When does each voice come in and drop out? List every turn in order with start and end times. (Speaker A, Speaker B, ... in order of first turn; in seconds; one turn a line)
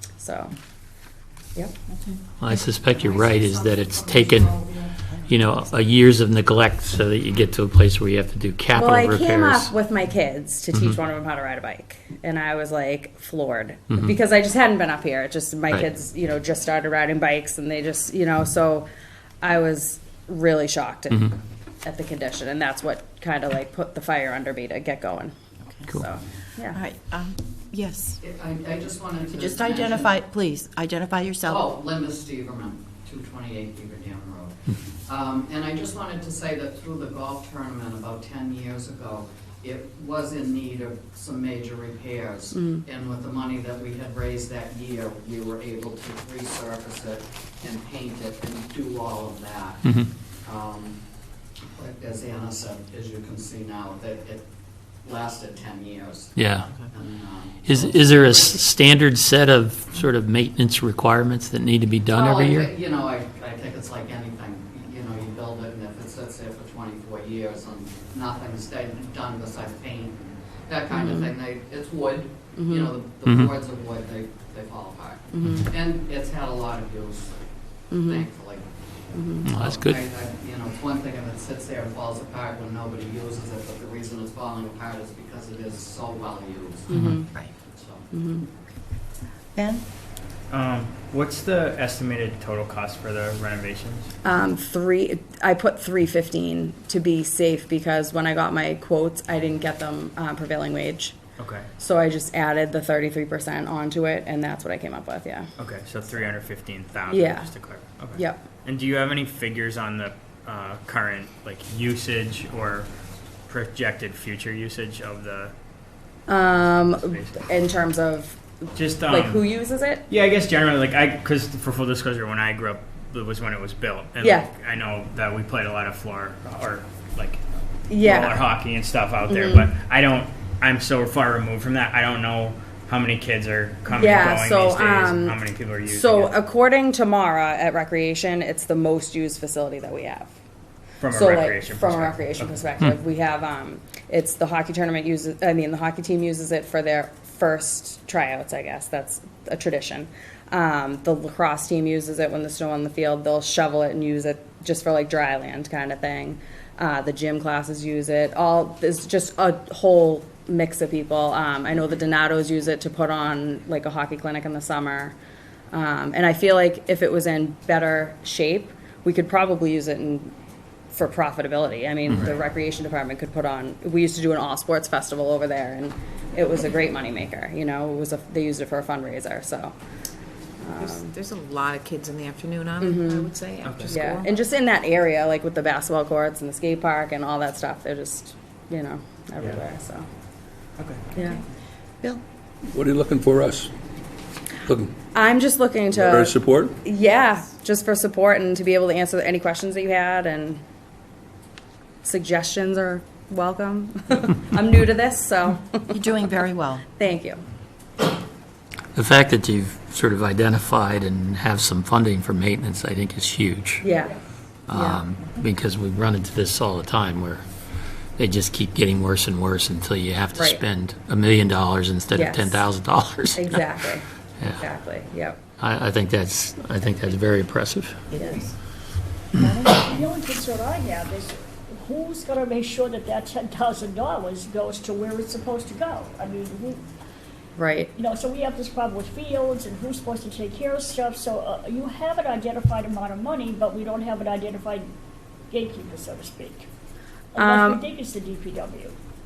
Speaker A: 0.2-0.5
Speaker B: 2.4-4.7
Speaker B: 5.2-9.7
Speaker A: 8.7-18.9
Speaker A: 19.4-25.3
Speaker A: 25.9-26.8
Speaker C: 26.7-28.2
Speaker D: 28.2-30.1
Speaker C: 29.3-31.7
Speaker D: 31.5-51.0
Speaker A: 42.5-42.8
Speaker B: 49.8-50.1
Speaker D: 51.7-54.5
Speaker D: 55.0-58.6
Speaker B: 56.3-56.8
Speaker B: 57.6-62.7
Speaker D: 62.1-77.4
Speaker A: 70.9-71.3
Speaker A: 72.5-72.9
Speaker B: 73.2-73.5
Speaker A: 75.3-75.7
Speaker A: 77.9-78.2
Speaker D: 78.0-78.7
Speaker A: 79.1-79.5
Speaker B: 79.4-80.0
Speaker D: 79.5-87.1
Speaker B: 86.9-87.2
Speaker A: 86.9-87.3
Speaker D: 87.7-88.1
Speaker A: 88.1-88.5
Speaker C: 89.5-89.8
Speaker E: 90.5-94.1
Speaker A: 94.2-101.2
Speaker E: 101.4-101.7
Speaker A: 101.8-105.5
Speaker E: 105.6-112.9
Speaker A: 107.1-107.5
Speaker A: 108.2-108.4
Speaker E: 113.5-115.5
Speaker A: 116.3-118.4
Speaker E: 116.5-117.4
Speaker E: 118.7-119.4
Speaker A: 119.0-120.0
Speaker E: 120.1-136.3
Speaker A: 124.2-124.5
Speaker A: 127.9-128.4
Speaker A: 129.3-129.7
Speaker A: 133.9-140.3
Speaker E: 141.0-142.6
Speaker A: 141.1-165.2
Speaker A: 165.7-170.3
Speaker A: 170.9-179.7
Speaker A: 180.6-181.2
Speaker F: 180.8-184.2
Speaker A: 182.8-183.3
Speaker E: 183.6-184.1
Speaker A: 183.9-190.1
Speaker E: 190.8-191.0
Speaker A: 191.2-191.4
Speaker G: 192.7-193.7
Speaker G: 194.7-194.9
Speaker A: 195.1-200.6
Speaker G: 195.9-196.7
Speaker A: 202.0-205.9
Speaker C: 205.9-206.8
Speaker A: 207.0-207.4
Speaker B: 208.9-213.8
Speaker A: 213.8-214.2
Speaker B: 214.7-217.4
Speaker A: 214.7-215.0
Speaker B: 218.2-223.7
Speaker A: 220.3-220.6
Speaker A: 222.1-222.6
Speaker A: 223.3-224.0
Speaker A: 224.6-225.4
Speaker B: 225.6-228.1
Speaker C: 228.1-228.5
Speaker A: 228.1-228.4
Speaker C: 229.4-230.0
Speaker H: 229.8-236.8
Speaker A: 237.6-237.9
Speaker H: 237.9-244.9
Speaker H: 245.5-246.7
Speaker H: 247.3-248.9
Speaker A: 247.3-247.8